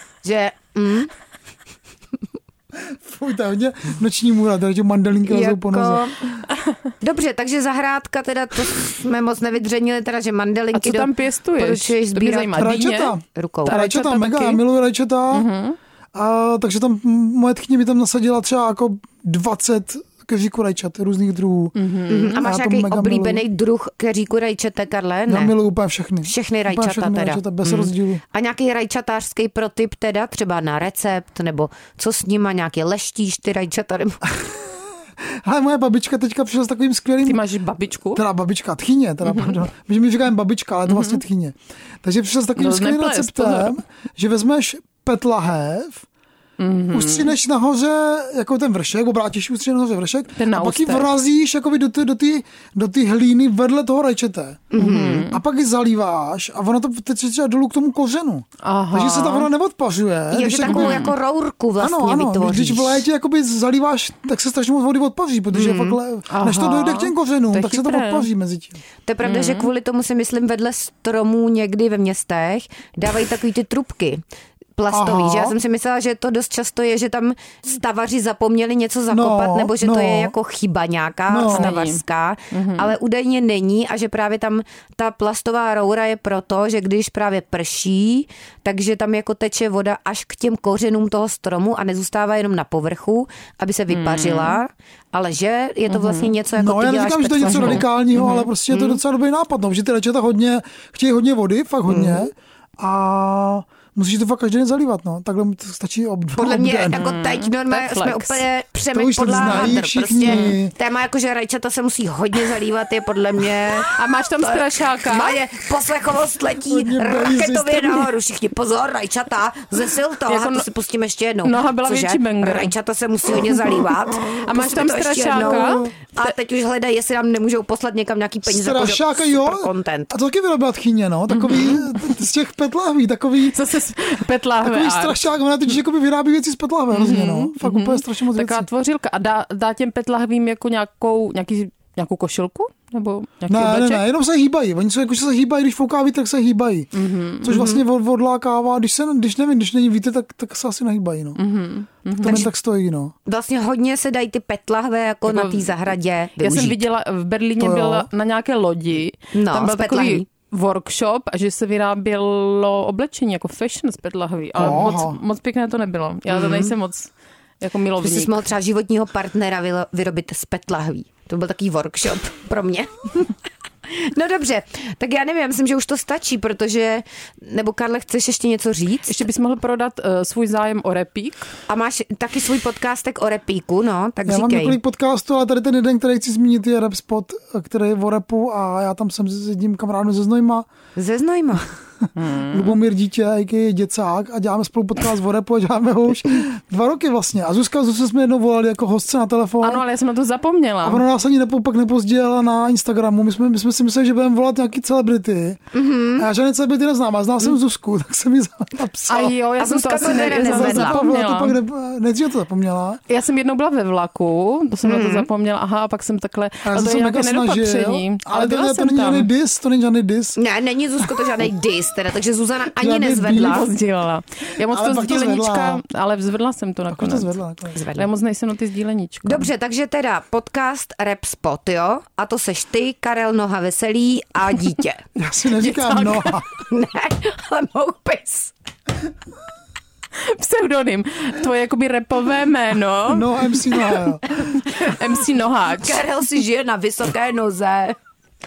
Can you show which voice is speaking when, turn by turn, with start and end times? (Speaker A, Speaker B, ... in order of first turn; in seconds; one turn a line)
Speaker A: 0.2-1.1
Speaker B: 2.7-6.4
Speaker A: 5.3-6.2
Speaker A: 7.0-12.8
Speaker C: 10.7-13.2
Speaker B: 12.5-15.5
Speaker A: 13.3-13.9
Speaker C: 13.7-14.6
Speaker C: 15.3-15.8
Speaker B: 16.1-21.8
Speaker C: 21.8-22.4
Speaker A: 22.1-25.6
Speaker B: 22.4-23.4
Speaker B: 25.3-28.2
Speaker A: 26.2-34.2
Speaker B: 34.2-37.4
Speaker C: 37.2-38.2
Speaker B: 38.1-46.1
Speaker C: 39.2-39.6
Speaker C: 40.9-41.2
Speaker C: 42.6-43.8
Speaker C: 46.6-47.3
Speaker B: 46.9-61.1
Speaker C: 50.4-51.1
Speaker A: 54.7-55.3
Speaker C: 54.8-55.4
Speaker C: 58.6-59.5
Speaker A: 60.3-63.1
Speaker C: 60.6-61.1
Speaker B: 61.8-68.8
Speaker A: 65.5-66.0
Speaker C: 66.3-68.3
Speaker A: 69.1-74.2
Speaker C: 69.2-69.7
Speaker A: 74.8-97.9
Speaker B: 74.9-75.5
Speaker B: 79.1-80.3
Speaker B: 81.3-81.7
Speaker C: 81.5-83.0
Speaker C: 93.9-94.6
Speaker C: 95.9-96.3
Speaker B: 96.5-107.0
Speaker C: 97.5-98.5
Speaker A: 98.7-99.0
Speaker A: 101.9-102.3
Speaker A: 106.4-130.1
Speaker C: 106.9-108.5
Speaker B: 108.9-110.7
Speaker C: 109.4-109.7
Speaker C: 110.3-110.6
Speaker C: 113.8-115.4
Speaker B: 116.7-118.1
Speaker C: 120.3-120.7
Speaker C: 121.4-122.7
Speaker C: 123.8-126.3
Speaker B: 125.3-125.9
Speaker B: 128.5-133.6
Speaker C: 131.3-132.2
Speaker C: 133.5-135.2
Speaker B: 134.6-138.7
Speaker C: 136.9-144.1
Speaker B: 143.5-146.9
Speaker C: 146.9-147.6
Speaker B: 147.4-151.4
Speaker A: 147.5-147.8
Speaker C: 151.4-152.4
Speaker A: 152.2-152.5
Speaker B: 152.2-153.1
Speaker A: 153.3-156.8
Speaker C: 155.3-168.3
Speaker B: 157.6-158.1
Speaker A: 159.3-160.3
Speaker B: 164.6-165.2
Speaker A: 164.6-164.9
Speaker A: 166.3-166.7
Speaker A: 168.0-173.3
Speaker A: 173.9-179.2
Speaker C: 179.1-181.5
Speaker A: 181.7-184.8
Speaker B: 184.3-190.7
Speaker A: 191.0-191.7
Speaker C: 192.2-192.8
Speaker B: 192.5-199.8
Speaker C: 199.6-201.0
Speaker B: 200.8-205.6
Speaker A: 205.7-206.3
Speaker B: 206.2-209.3
Speaker C: 209.1-211.6
Speaker A: 209.1-211.0
Speaker B: 210.2-213.0
Speaker C: 213.1-219.3
Speaker A: 214.8-215.3
Speaker B: 216.6-220.4
Speaker A: 220.4-223.7
Speaker B: 222.8-223.7
Speaker C: 223.4-227.4
Speaker B: 224.7-225.8
Speaker B: 226.9-227.8
Speaker A: 227.7-228.1
Speaker C: 228.0-229.5
Speaker A: 229.2-235.0
Speaker B: 235.2-236.5
Speaker C: 235.6-236.4
Speaker A: 236.6-238.5
Speaker C: 240.2-244.0
Speaker B: 243.1-244.4
Speaker C: 244.6-246.0
Speaker A: 245.7-248.0